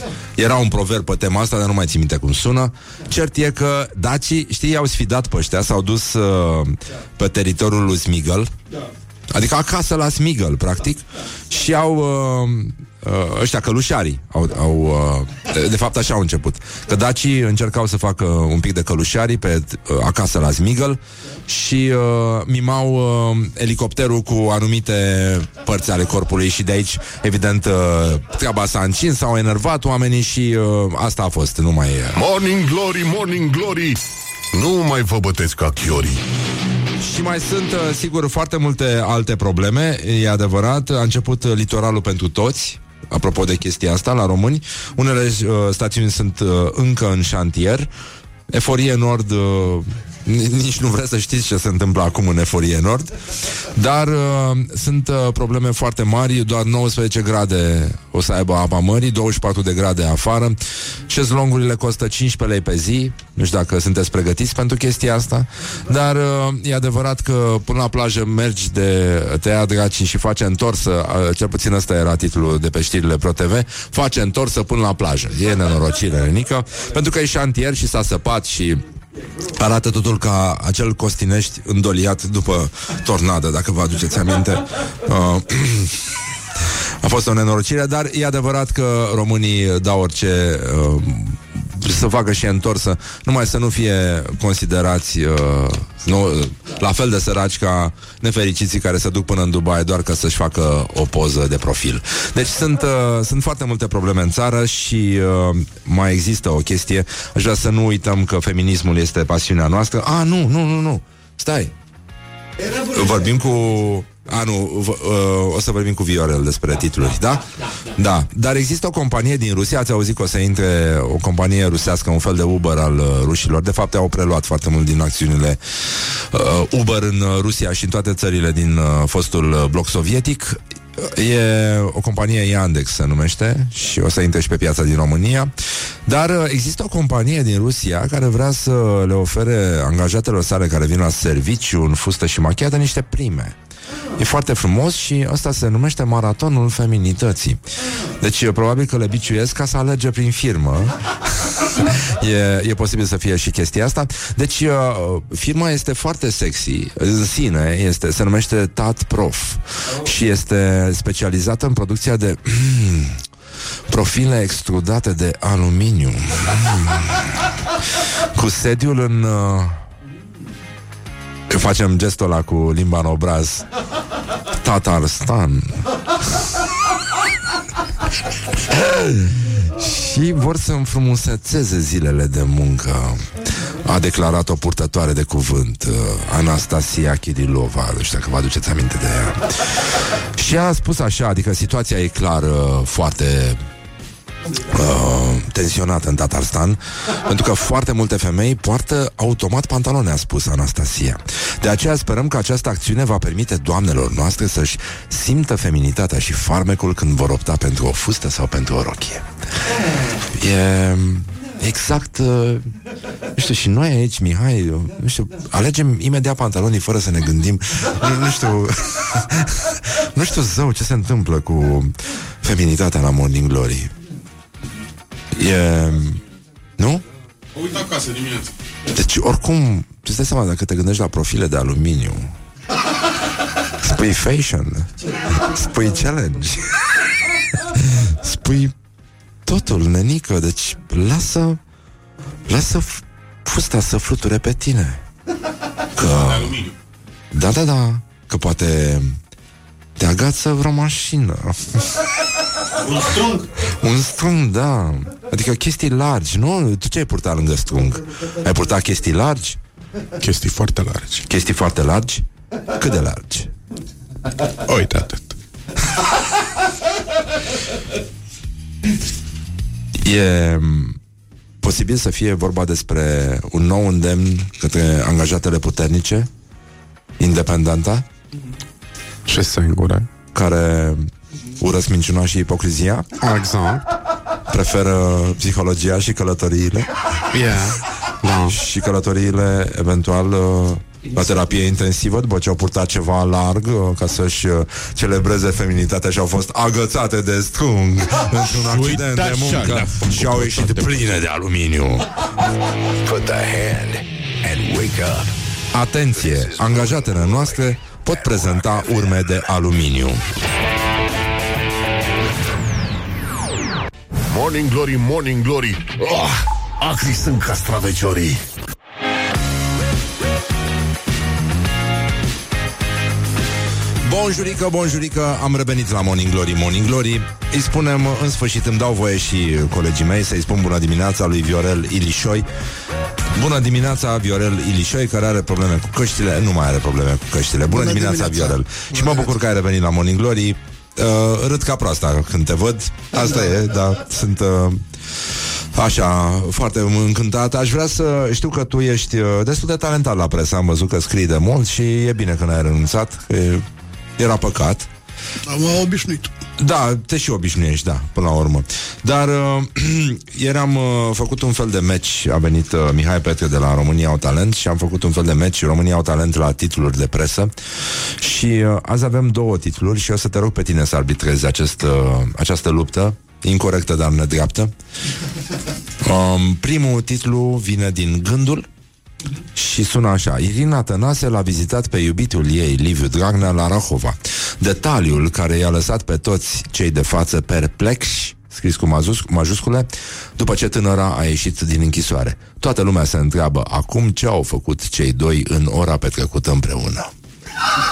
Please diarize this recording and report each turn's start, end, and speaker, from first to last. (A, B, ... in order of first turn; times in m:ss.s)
0:00.4-0:08.5 A
0:09.3-0:32.2 A
0:32.1-0:34.0 B
0:34.5-0:36.2 B
0:37.0-0:47.9 A
0:48.5-0:53.1 A
0:53.7-1:18.8 A
1:19.5-1:26.0 A
1:27.0-1:51.7 A
1:52.8-2:15.5 A
2:16.0-2:23.5 A
2:24.2-2:27.6 A
2:28.2-2:31.0 A
2:31.5-2:43.2 A
2:43.9-2:47.2 A
2:48.3-2:49.8 A
2:51.5-2:53.6 A
2:54.6-2:55.8 A
2:58.7-3:13.6 A
3:14.7-3:29.2 A
3:30.3-3:32.7 A
3:33.4-3:43.9 A
3:45.3-3:46.2 A
3:47.5-3:48.5 C
3:48.9-3:52.3 A
3:53.8-3:56.8 A
3:57.5-3:58.7 A
3:59.4-4:01.6 A
4:02.5-4:05.0 A
4:05.9-4:06.6 A
4:06.2-4:06.7 C
4:07.3-4:09.1 A
4:10.0-4:11.8 A
4:13.6-4:19.6 A
4:20.2-4:21.2 C
4:21.3-4:22.2 A
4:22.7-4:23.5 A
4:24.6-4:25.3 C
4:30.0-4:31.0 A
4:31.6-4:36.3 A
4:37.2-4:38.0 A
4:39.3-4:40.1 C
4:40.3-4:41.1 A
4:41.6-4:43.1 A
4:43.2-4:43.8 C
4:44.5-4:47.0 A
4:47.3-4:48.6 C
4:48.4-5:02.1 A
4:58.4-5:01.1 C
5:03.0-5:05.3 D
5:05.7-5:10.2 A
5:06.1-5:09.0 D
5:14.3-5:18.4 B
5:24.0-5:32.5 A
5:33.4-5:44.8 A
5:37.7-5:39.3 E
5:45.7-5:53.6 A
5:54.2-5:54.9 A
5:55.5-5:56.3 E
5:56.6-6:07.5 A
6:08.2-6:14.7 A
6:16.0-6:18.6 A
6:19.5-6:37.1 A